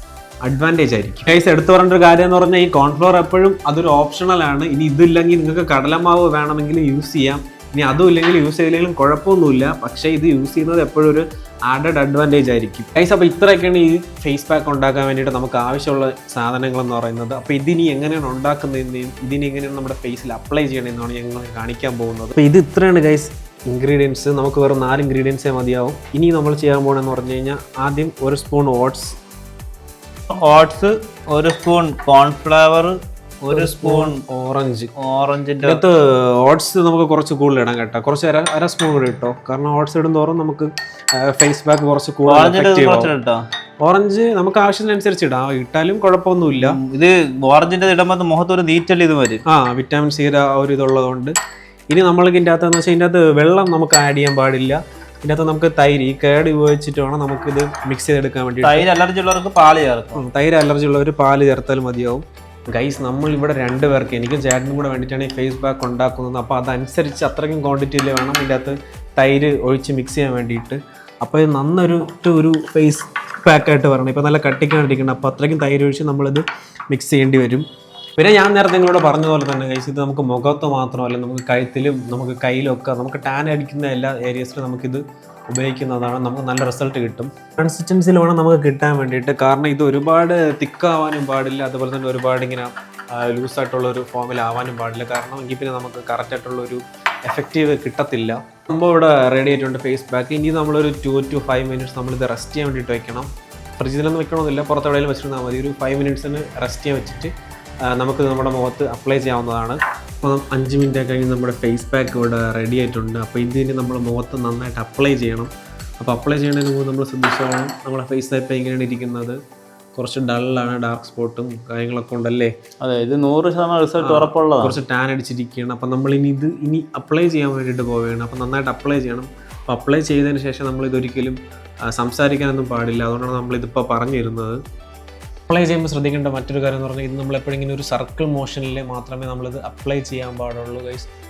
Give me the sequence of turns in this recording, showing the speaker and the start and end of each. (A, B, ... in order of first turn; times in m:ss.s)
0:00.4-0:29.2 A
0:30.3-0:34.2 B
0:33.5-0:34.9 A
0:35.0-0:35.8 B
0:35.6-0:43.1 A
0:42.3-0:43.4 B
0:43.8-0:46.8 A
0:46.6-0:49.4 B
0:49.5-0:51.3 A
0:51.9-0:58.8 A
0:58.6-1:00.2 B
1:00.2-1:17.6 A
1:18.2-1:47.3 A
1:47.9-1:59.4 A
2:00.0-2:02.5 A
2:02.8-2:04.8 B
2:04.0-2:11.4 A
2:11.9-2:14.6 A
2:15.5-2:21.1 A